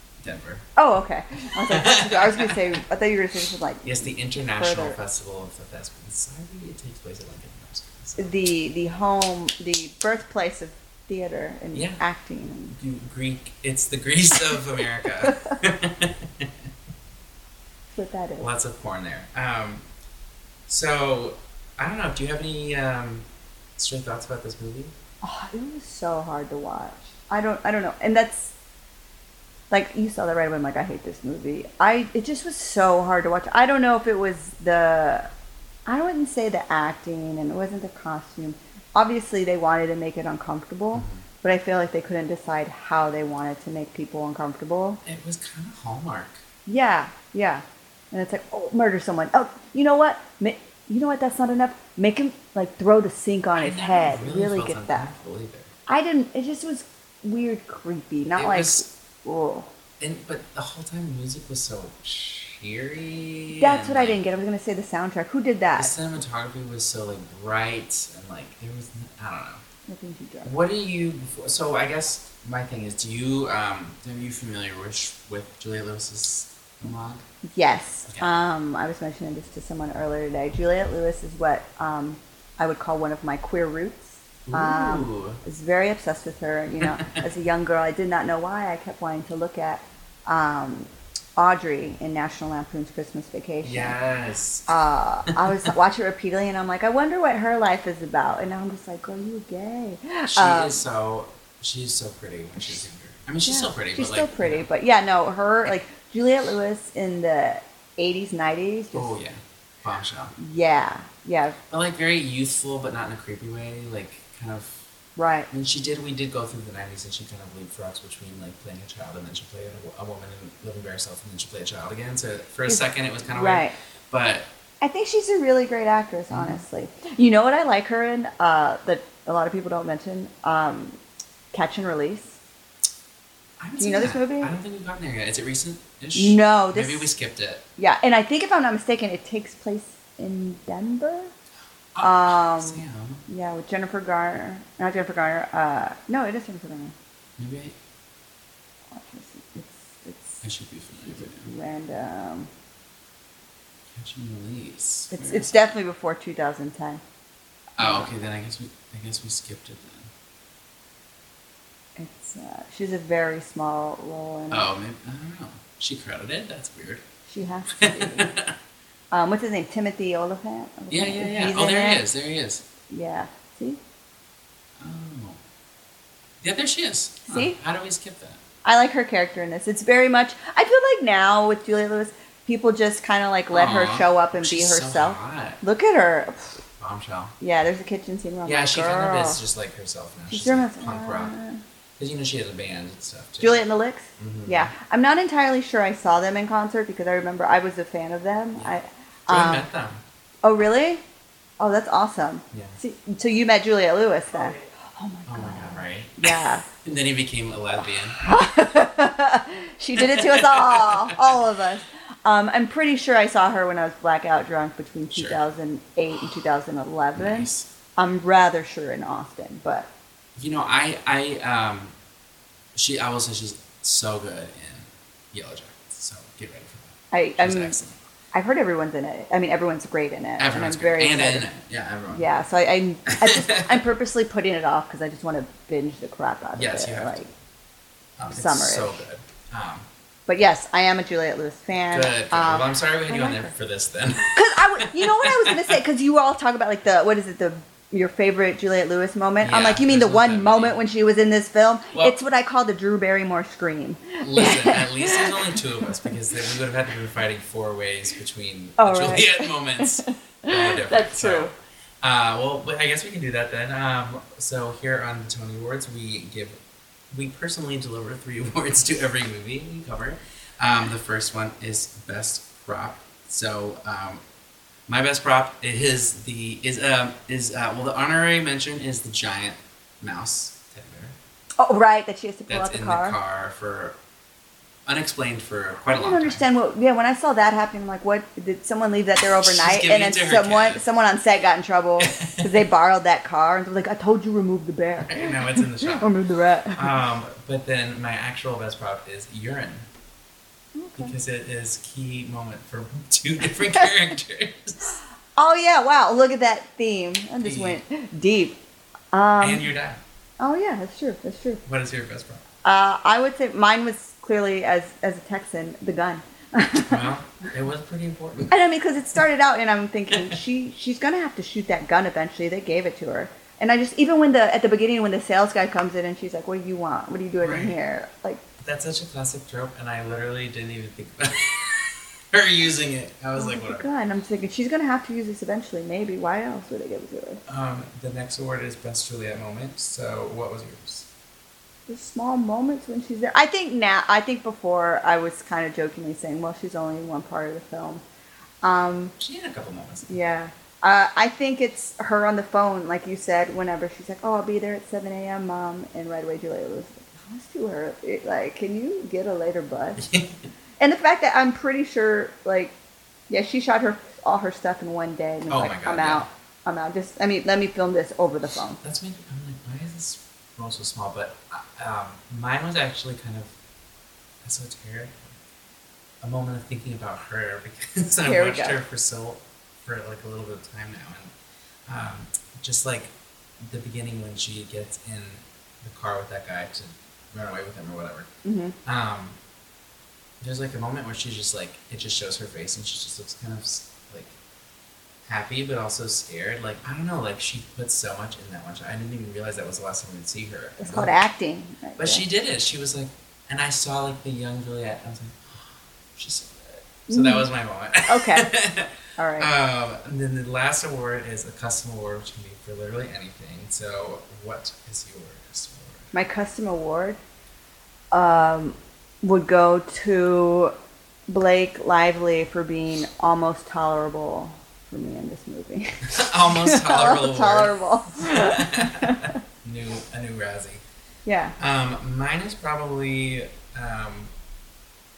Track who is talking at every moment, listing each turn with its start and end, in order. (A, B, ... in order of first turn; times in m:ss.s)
0:00.2-0:00.7 A
0:00.8-0:05.0 B
0:01.6-0:02.6 A
0:03.8-0:08.3 A
0:08.2-0:12.8 B
0:11.7-0:12.0 A
0:12.8-0:16.5 A
0:15.2-0:15.5 B
0:17.9-0:18.5 B
0:18.4-0:19.8 A
0:20.7-0:23.2 A
0:23.8-0:24.9 A
0:25.2-0:28.5 B
0:29.7-0:35.3 B
0:35.9-0:45.0 B
0:40.9-0:41.2 A
0:45.0-0:46.4 A
0:46.7-0:55.1 B
0:53.6-0:55.7 A
0:55.9-0:59.7 B
0:58.4-0:58.9 A
1:00.0-1:04.2 A
1:03.5-1:05.9 B
1:05.8-1:09.6 A
1:09.9-1:10.5 B
1:10.4-1:17.2 A
1:17.4-1:34.0 B
1:18.1-1:18.4 A
1:24.5-1:25.4 A
1:26.8-1:27.2 A
1:33.6-1:34.7 A
1:34.7-1:40.8 B
1:35.3-1:35.6 A
1:40.3-1:44.7 A
1:43.4-1:49.1 B
1:48.9-1:50.4 A
1:50.4-1:51.6 B
1:51.7-1:54.9 A
1:55.2-1:55.5 B
1:55.5-2:04.5 A
2:02.7-2:03.8 B
2:04.8-2:11.0 B
2:06.3-2:06.6 A
2:11.5-2:12.4 B
2:13.6-2:17.6 A
2:13.8-2:14.5 B
2:16.2-2:17.1 B
2:17.8-2:21.3 B
2:22.0-2:23.2 A
2:22.0-2:27.0 B
2:27.4-2:27.8 A
2:28.9-2:30.4 B
2:30.4-2:31.5 A
2:31.1-2:32.5 B
2:34.0-2:35.7 A
2:35.1-2:37.0 B
2:37.8-2:38.1 B
2:37.8-2:40.1 A
2:42.0-2:44.7 B
2:44.5-2:47.0 A
2:47.3-2:48.3 B
2:47.7-2:48.6 A
2:49.1-2:52.0 B
2:50.9-2:52.6 A
2:52.9-2:53.8 B
2:54.8-2:55.4 A
2:56.4-2:58.4 A
2:57.3-2:57.6 B
2:58.6-3:06.6 B
3:03.5-3:05.6 A
3:06.8-3:07.3 A
3:07.4-3:09.4 B
3:08.4-3:11.4 A
3:10.3-3:11.6 B
3:12.0-3:13.6 A
3:13.4-3:19.7 B
3:14.2-3:14.7 A
3:19.3-3:20.0 A
3:20.4-3:21.0 B
3:21.6-3:26.6 B
3:22.5-3:22.8 A
3:25.3-3:28.2 A
3:28.2-3:39.9 B
3:30.0-3:31.4 A
3:35.1-3:35.4 A
3:37.2-3:37.7 A
3:40.4-3:41.9 A
3:42.8-3:48.0 A
3:47.1-3:47.8 B
3:48.3-3:51.5 B
3:50.4-3:52.3 A
3:52.1-3:57.3 B
3:53.1-3:53.8 A
3:56.6-3:57.2 A
3:58.2-3:59.9 A
3:58.3-3:59.0 B
4:00.3-4:03.5 B
4:01.8-4:05.8 A
4:04.3-4:16.5 B
4:09.4-4:10.8 A
4:14.2-4:21.5 A
4:18.8-4:21.5 B
4:22.0-4:26.6 A
4:27.1-4:34.2 A
4:34.9-4:41.2 A
4:41.6-4:43.2 B
4:42.5-4:44.0 A
4:44.9-4:46.4 A
4:45.9-4:57.0 B
4:49.4-4:50.8 A
4:52.0-4:52.6 A
4:55.0-4:56.1 A
4:56.7-4:59.9 A
5:00.8-5:01.1 B
5:01.0-5:05.0 A
5:03.4-5:03.9 B
5:05.4-5:08.6 B
5:07.4-5:07.8 A
5:09.1-5:09.6 B
5:09.4-5:10.0 A
5:10.4-5:11.6 B
5:11.7-5:12.4 A
5:12.6-5:17.0 B
5:16.8-5:18.6 A
5:18.5-5:28.4 B
5:27.4-5:27.8 A
5:28.6-5:33.8 A
5:33.4-5:37.4 B
5:37.5-5:41.1 A
5:41.9-5:48.0 B
5:48.6-5:49.2 B
5:49.2-5:50.2 A
5:50.1-6:00.1 B
6:00.0-6:00.4 A
6:00.8-6:02.7 B
6:03.3-6:08.8 B
6:05.5-6:06.3 A
6:08.8-6:13.5 A
6:14.4-6:15.4 A
6:16.2-6:21.3 A
6:18.2-6:18.8 B
6:21.9-6:28.3 A
6:28.4-6:28.8 B
6:28.8-6:29.4 A
6:30.4-6:34.3 A
6:35.3-6:41.2 A
6:40.8-6:42.2 B
6:42.0-6:56.1 A
6:47.1-6:47.5 B
6:48.0-6:48.5 B
6:49.2-6:49.5 B
6:56.1-6:57.2 B
6:58.1-7:00.7 B
7:01.3-7:09.4 B
7:06.0-7:10.8 A
7:11.3-7:11.6 B
7:11.6-7:14.3 A